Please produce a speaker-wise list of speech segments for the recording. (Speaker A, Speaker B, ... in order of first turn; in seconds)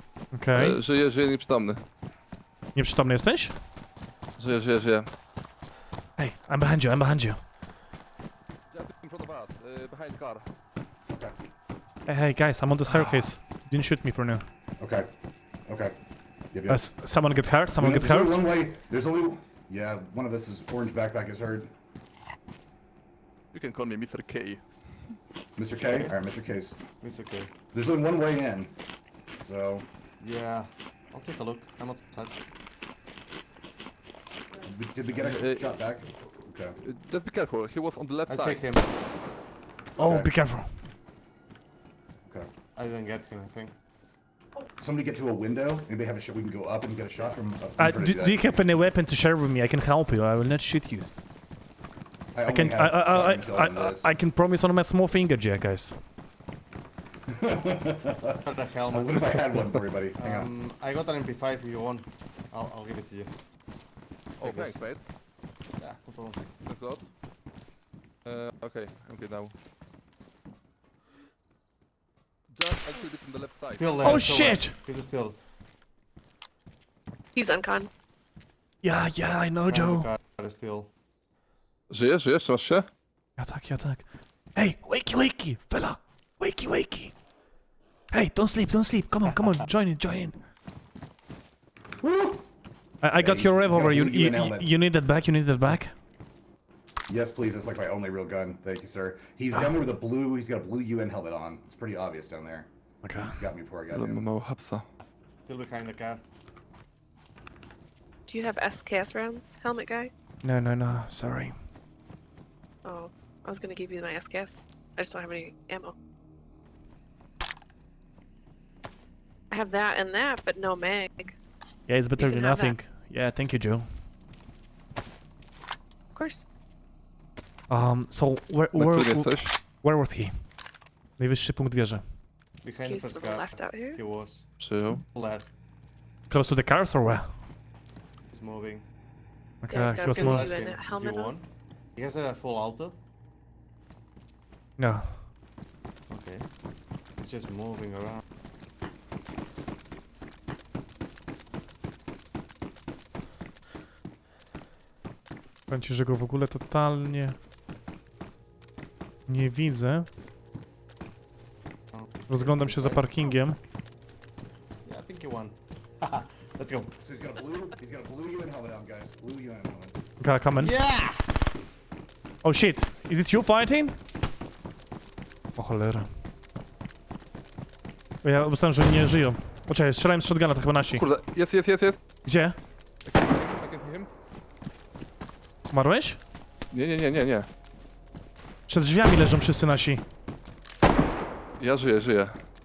Speaker A: 0.3-0.8, 2.7-3.5, 6.2-7.4, 12.1-14.4, 16.7-18.4, 40.0-40.7, 47.8-51.1, 52.4-56.0, 74.0-74.7, 78.8-80.1, 83.4-84.0, 84.5-87.1, 88.1-90.3, 93.0-95.9, 103.0-103.4, 110.4-111.5, 121.9-123.9, 127.7-130.3, 131.2-132.0, 136.3-137.3, 139.6-140.5, 144.8-145.2, 155.7-157.4, 159.3-160.1, 162.3-163.6, 170.2-170.7, 172.4-173.9, 175.6-176.1, 178.2-181.0, 182.2-182.6, 185.7-186.2, 188.7-190.0
Speaker B: 0.5-1.8, 4.4-5.1, 8.7-10.4, 23.5-24.6, 35.1-35.8, 36.8-38.6, 64.4-65.0, 66.7-67.0, 68.2-69.5, 72.5-74.3, 81.9-82.9, 103.9-104.8, 128.8-129.5, 134.6-135.0, 180.9-182.0, 183.0-184.1, 186.7-187.5, 191.6-192.4
Speaker C: 11.1-11.3, 14.8-15.1, 15.7-15.9, 16.5-16.8, 17.8-21.7, 25.6-26.8, 27.7-28.7, 29.4-29.9, 34.6-36.8, 40.0-40.3, 44.8-48.4, 52.3-54.1, 57.3-60.5, 92.0-92.4, 93.2-94.7, 97.1-102.7, 103.3-104.2, 167.0-170.0
Speaker D: 27.0-27.5, 30.2-32.4, 38.3-38.9, 42.8-43.7, 58.4-63.3, 64.4-64.8, 65.8-66.4, 73.8-75.4, 79.7-80.9, 105.4-106.2, 132.6-134.4, 135.0-135.5, 138.3-138.8, 140.0-143.0, 146.1-146.5, 147.2-148.2, 161.9-163.1, 164.8-166.9, 170.6-171.3
Speaker E: 77.3-77.9, 108.3-110.1, 112.8-115.9, 119.5-121.3, 122.2-122.8, 126.1-126.4, 132.8-134.0, 139.7-141.3